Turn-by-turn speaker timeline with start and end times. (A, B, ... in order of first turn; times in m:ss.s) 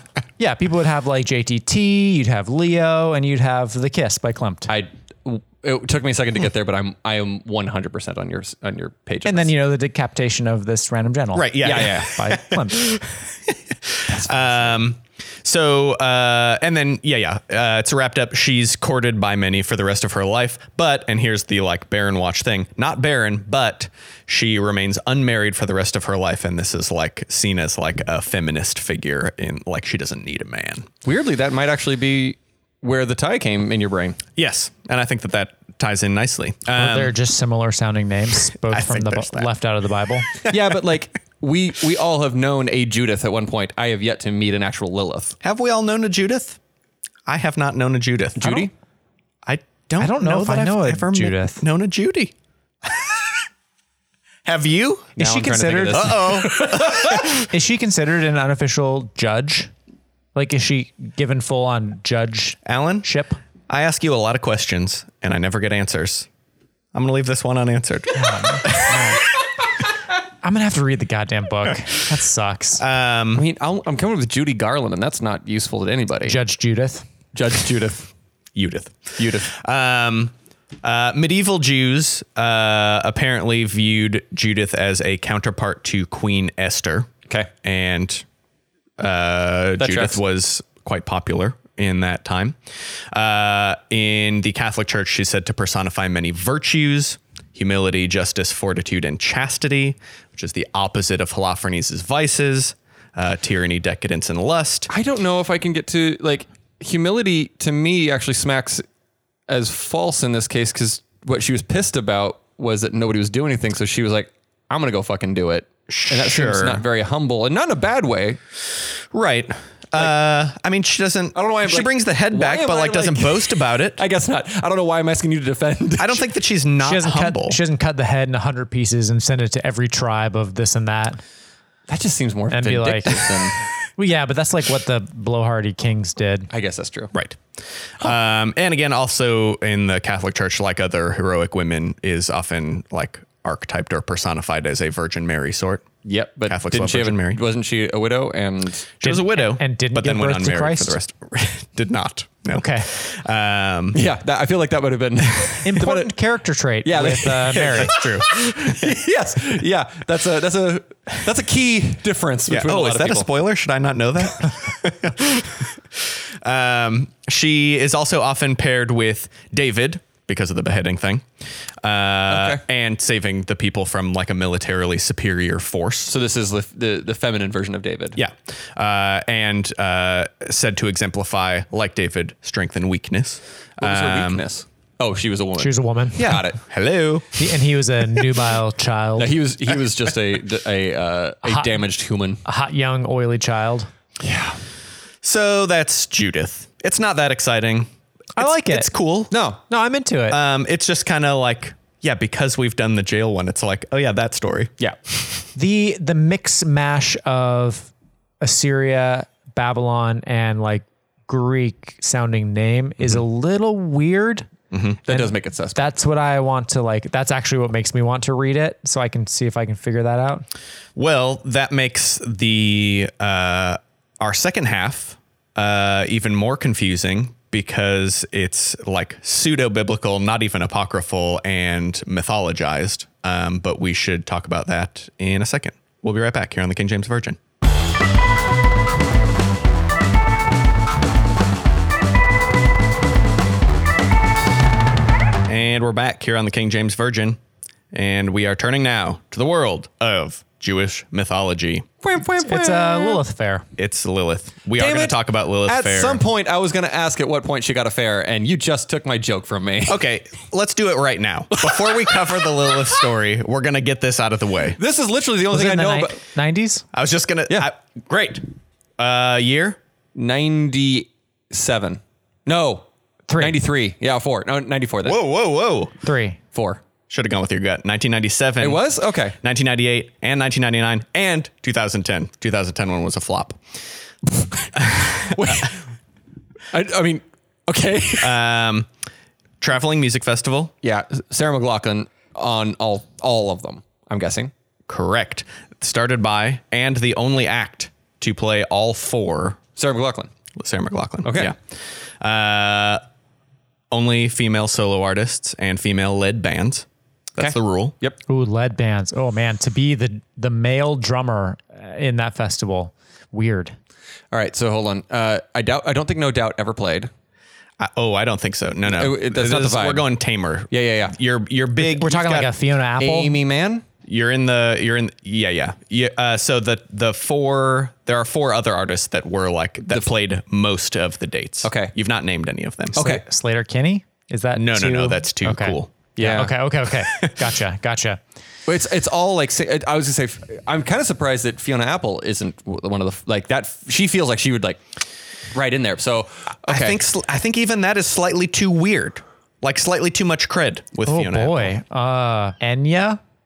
0:00.4-0:04.7 A
0:04.7-0:09.5 B
0:09.2-0:12.9 A
0:11.3-0:30.9 C
0:11.6-0:12.1 B
0:14.1-0:14.7 B
0:31.0-0:34.2 B
0:34.4-0:37.1 C
0:36.7-0:40.3 A
0:38.6-0:39.5 C
0:40.4-0:40.8 C
0:40.5-0:45.4 B
0:45.4-0:46.6 C
0:47.3-0:48.7 C
0:48.4-0:48.7 B
0:49.4-0:52.3 C
0:50.0-0:51.6 A
0:52.8-0:53.2 C
0:54.4-0:55.1 C
0:55.2-0:56.4 A
0:55.2-0:57.1 B
0:55.9-0:57.5 C
0:57.5-0:59.7 A
1:00.3-1:03.4 A
1:02.6-1:03.1 C
1:03.7-1:06.3 C
1:06.9-1:09.1 C
1:08.2-1:09.2 A
1:10.4-1:12.8 A
1:12.8-1:13.4 C
1:13.3-1:16.4 B
1:16.3-1:17.0 A
1:17.3-1:18.1 B
1:18.6-1:27.1 C
1:19.2-1:19.5 B
1:27.6-1:28.2 C
1:29.0-1:44.9 C
1:29.8-1:30.2 B
1:44.9-1:48.8 B
1:49.5-1:58.4 B
1:55.9-1:56.8 C
1:59.1-2:04.0 C
2:01.3-2:06.2 B
2:06.0-2:07.6 C
2:06.8-2:11.2 A
2:11.9-2:13.6 B
2:12.5-2:13.3 A
2:14.0-2:16.5 A
2:16.5-2:17.1 B
2:17.1-2:17.4 C
2:18.0-2:25.9 C
2:26.0-2:28.9 B
2:26.5-2:27.4 C
2:29.0-2:34.0 C
2:29.0-2:31.0 A
2:32.5-2:32.9 A
2:33.9-2:36.1 B
2:35.6-2:37.9 A
2:36.8-2:43.3 B
2:37.7-2:38.9 C
2:42.5-2:51.3 C
2:51.8-2:56.1 C
2:52.3-2:52.6 B
2:56.1-2:58.2 B
2:58.2-3:04.4 C
3:03.8-3:06.6 B
3:05.6-3:06.4 A
3:06.6-3:07.4 C
3:07.4-3:09.3 A
3:09.2-3:12.4 B
3:11.4-3:11.8 A
3:12.4-3:13.9 A
3:14.2-3:14.6 B
3:15.2-3:19.3 C
3:18.4-3:18.9 A
3:19.3-3:19.6 B
3:19.7-3:20.4 A
3:20.3-3:24.7 C
3:25.5-3:34.5 A
3:34.7-3:35.0 C
3:35.0-3:35.9 B
3:35.1-3:40.4 A
3:41.0-3:57.4 C
4:05.4-4:07.4 C
4:07.9-4:11.9 C
4:12.0-4:13.2 B
4:12.4-4:13.6 A
4:13.8-4:16.2 C
4:14.8-4:20.0 B
4:19.8-4:24.8 C
4:21.5-4:22.2 B
4:24.8-4:26.2 B
4:25.5-4:26.8 A
4:26.9-4:28.4 C
4:29.0-4:29.8 C
4:30.1-4:32.8 B
4:33.3-4:33.6 A
4:33.4-4:35.2 B
4:35.0-4:35.9 C
4:36.0-4:36.4 A
4:36.5-4:36.8 B
4:37.1-4:38.8 C
4:38.6-4:39.4 B
4:39.4-4:43.6 C
4:44.4-4:44.7 B
4:44.8-4:45.6 C
4:45.3-4:45.8 B
4:46.7-4:48.4 B
4:48.2-4:48.9 C
4:49.6-4:50.7 C
4:50.8-4:54.5 B
4:54.9-4:59.6 C
4:59.8-5:00.3 B
5:00.6-5:03.0 C
5:01.2-5:01.5 B
5:03.9-5:06.8 C
5:07.4-5:07.9 C
5:07.4-5:08.2 B
5:08.3-5:13.7 A
5:14.3-5:17.1 B
5:17.8-5:22.5 C
5:18.9-5:20.1 B
5:20.7-5:21.1 B
5:21.8-5:23.4 A
5:23.0-5:23.8 B
5:24.0-5:33.1 C
5:31.6-5:31.9 B
5:32.9-5:33.2 B
5:33.0-5:38.2 A
5:34.5-5:36.5 C
5:36.2-5:36.5 B
5:37.0-5:37.3 C
5:38.7-5:45.0 B
5:45.5-5:47.0 B
5:46.6-5:51.7 C
5:51.1-5:53.2 A